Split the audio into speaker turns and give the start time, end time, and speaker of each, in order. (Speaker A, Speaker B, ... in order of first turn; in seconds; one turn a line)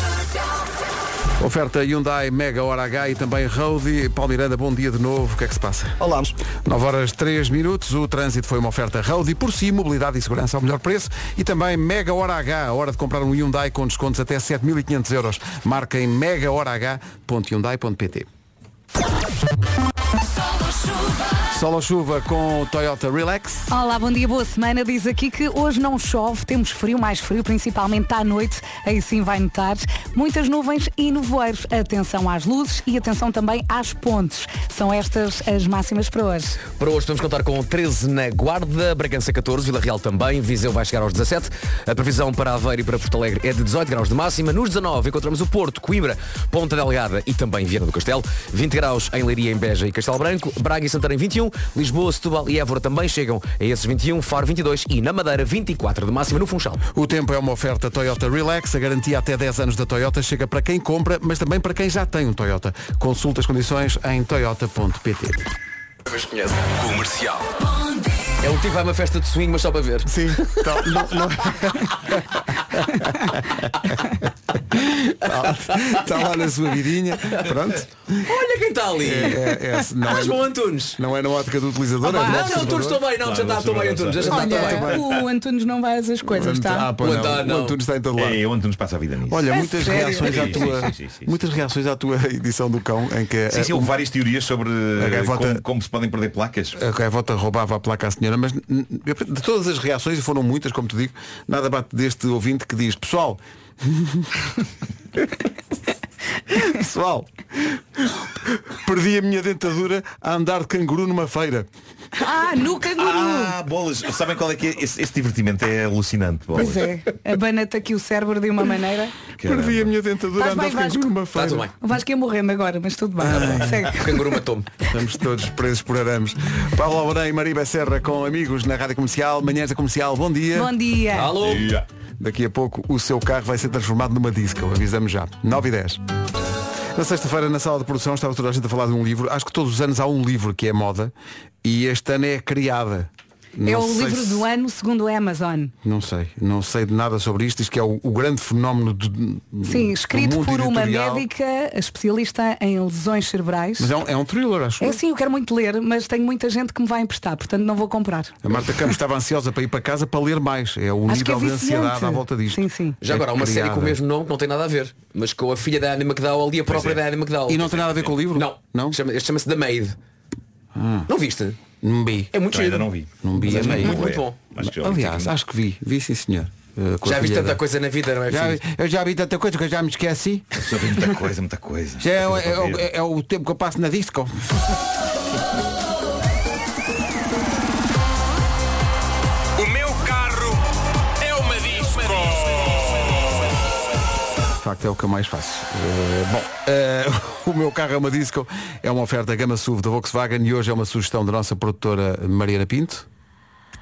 Speaker A: 1.4-18.3
Speaker A: 21.5-23.7
Speaker B: 23.7-36.6
Speaker C: 36.7-56.8
Speaker A: 56.9-65.5
Speaker C: 66.1-67.1
Speaker C: 68.4-71.0
Speaker A: 70.0-74.2
Speaker A: 74.7-78.2
Speaker C: 78.2-79.5
Speaker A: 79.0-83.0
Speaker C: 80.0-81.0
Speaker C: 82.0-85.0
Speaker D: 83.1-84.3
Speaker B: 84.3-86.9
Speaker A: 84.3-85.0
Speaker A: 86.3-88.4
Speaker C: 87.0-87.8
Speaker D: 88.2-89.5
Speaker A: 89.3-93.9
Speaker B: 89.5-90.4
Speaker D: 90.2-91.3
Speaker D: 93.5-96.8
Speaker A: 95.0-95.6
Speaker A: 96.8-104.3
Speaker A: 106.5-107.8
Speaker A: 108.5-111.7
Speaker B: 112.2-113.5
Speaker D: 112.9-116.9
Speaker B: 116.5-119.1
Speaker D: 119.4-119.9
Speaker A: 119.4-121.7
Speaker B: 120.4-121.1
Speaker C: 121.3-121.8
Speaker B: 121.8-124.2
Speaker A: 123.2-123.8
Speaker C: 123.3-124.7
Speaker A: 124.9-130.7
Speaker B: 130.5-131.4
Speaker C: 131.1-131.8
Speaker D: 131.4-131.8
Speaker A: 132.2-136.0
Speaker A: 136.9-144.4
Speaker B: 143.6-145.7
Speaker A: 145.8-151.2
Speaker B: 149.7-153.9
Speaker A: 153.8-155.0
Speaker B: 154.8-158.9
Speaker A: 158.4-164.0
Speaker B: 161.1-163.0
Speaker C: 163.0-170.0
Speaker D: 166.7-167.0
Speaker A: 167.5-169.0
Speaker A: 170.7-171.1
Speaker C: 171.1-171.6
Speaker A: 171.8-172.3
Speaker C: 172.3-174.4
Speaker D: 172.5-175.3
Speaker A: 173.2-174.0
Speaker A: 174.6-177.6
Speaker C: 177.0-178.6
Speaker A: 178.3-180.6
Speaker D: 180.6-182.8
Speaker A: 182.0-184.5
Speaker E: 189.6-190.6
Speaker E: 191.2-193.2
Speaker A: 194.6-203.1